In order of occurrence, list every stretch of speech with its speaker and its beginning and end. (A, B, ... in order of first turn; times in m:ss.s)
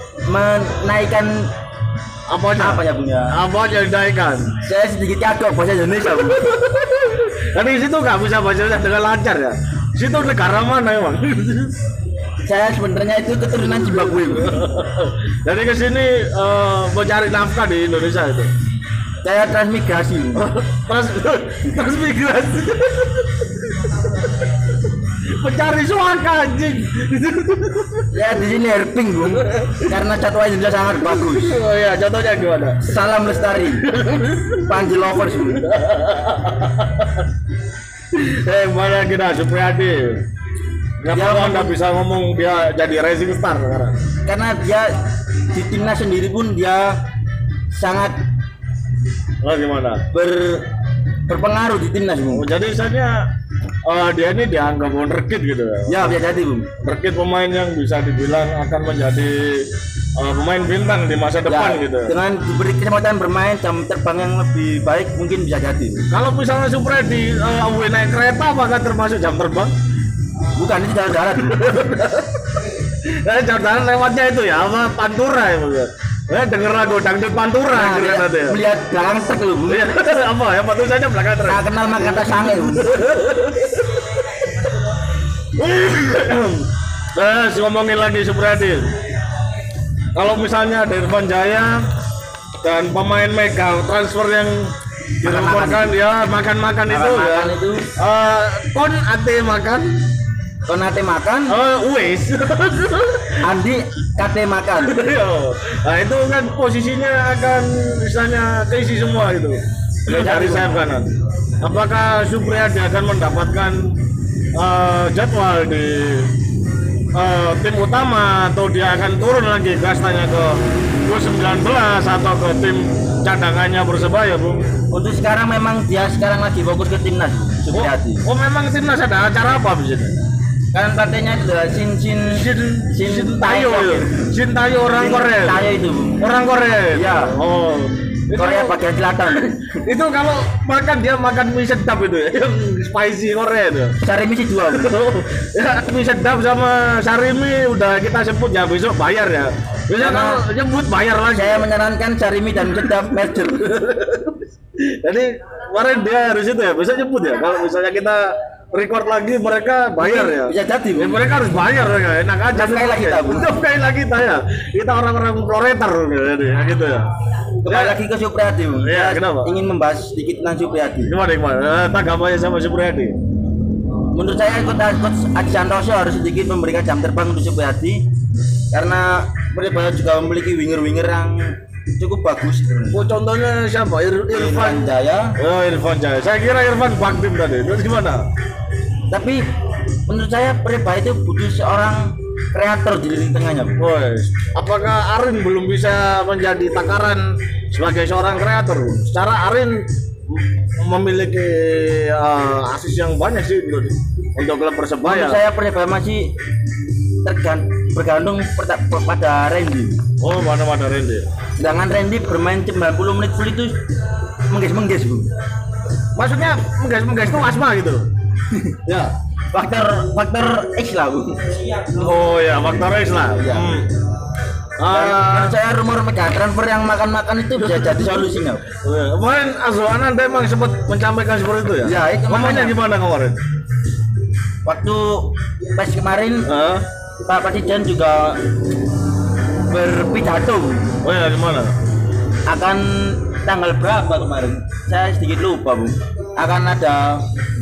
0:00.3-0:01.5 A
0:02.3-0:04.6 B
0:02.6-0:03.4 A
0:04.6-0:06.5 A
0:06.3-0:11.8 B
0:12.4-0:14.6 A
0:13.8-0:18.5 B
0:19.2-0:20.5 A
0:20.4-0:24.3 B
0:25.3-0:28.1 B
0:28.1-0:31.6 A
0:29.4-0:29.9 B
0:31.0-0:32.9 B
0:32.8-0:33.9 A
0:33.6-0:37.3 B
0:34.6-0:35.7 A
0:38.1-0:40.2 B
0:41.0-0:44.0 B
0:41.1-0:41.8 A
0:44.3-0:45.0 A
0:45.5-0:47.0 A
0:47.7-0:48.2 A
0:49.4-0:50.0 B
0:50.1-0:50.6 A
0:51.3-0:52.4 A
0:52.3-0:53.3 B
0:53.8-0:56.2 B
0:55.9-0:56.7 A
0:56.8-1:02.1 B
1:01.5-1:06.1 A
1:06.1-1:09.7 B
1:10.6-1:11.9 A
1:11.5-1:12.4 B
1:13.0-1:18.6 B
1:17.7-1:19.9 A
1:19.7-1:21.7 B
1:21.5-1:22.9 A
1:22.2-1:24.6 B
1:25.6-1:28.9 B
1:30.1-1:31.8 B
1:32.6-1:40.0 B
1:35.2-1:35.9 A
1:36.9-1:37.9 A
1:40.7-1:41.6 A
1:41.5-1:43.5 B
1:43.4-1:45.0 A
1:44.8-1:51.1 B
1:50.1-1:50.8 A
1:51.6-1:53.9 B
1:54.5-1:56.3 B
1:57.1-2:04.7 B
2:04.9-2:08.3 A
2:07.7-2:10.2 B
2:10.7-2:14.3 A
2:12.3-2:24.0 B
2:14.9-2:16.3 A
2:16.9-2:17.4 A
2:18.4-2:19.8 A
2:24.0-2:24.9 A
2:24.7-2:31.7 B
2:30.0-2:30.4 A
2:31.3-2:33.7 A
2:32.8-2:47.1 B
2:40.0-2:41.2 A
2:42.5-2:43.5 A
2:47.6-2:51.1 A
2:47.7-2:48.0 B
2:48.8-2:49.5 B
2:51.1-2:53.2 B
2:54.1-2:58.1 A
2:58.7-3:03.1 A
3:02.9-3:04.8 B
3:04.3-3:05.4 A
3:05.4-3:08.3 B
3:09.1-3:09.5 A
3:10.1-3:13.8 A
3:13.8-3:25.4 B
3:25.0-3:26.3 A
3:27.2-3:30.0 A
3:30.2-3:31.3 B
3:31.6-3:33.8 A
3:34.5-3:35.3 A
3:36.2-3:38.1 B
3:38.5-3:38.8 A
3:38.8-3:39.1 B
3:39.5-3:41.9 A
3:41.9-3:43.9 B
3:43.4-3:43.7 A
3:44.8-3:45.6 B
3:44.9-3:48.7 A
3:47.6-3:48.2 B
3:48.8-3:53.4 B
3:51.8-3:52.8 A
3:54.6-3:56.5 A
3:56.5-3:56.9 B
3:57.2-3:58.4 A
3:59.6-4:00.9 A
4:01.0-4:01.7 B
4:02.5-4:07.2 A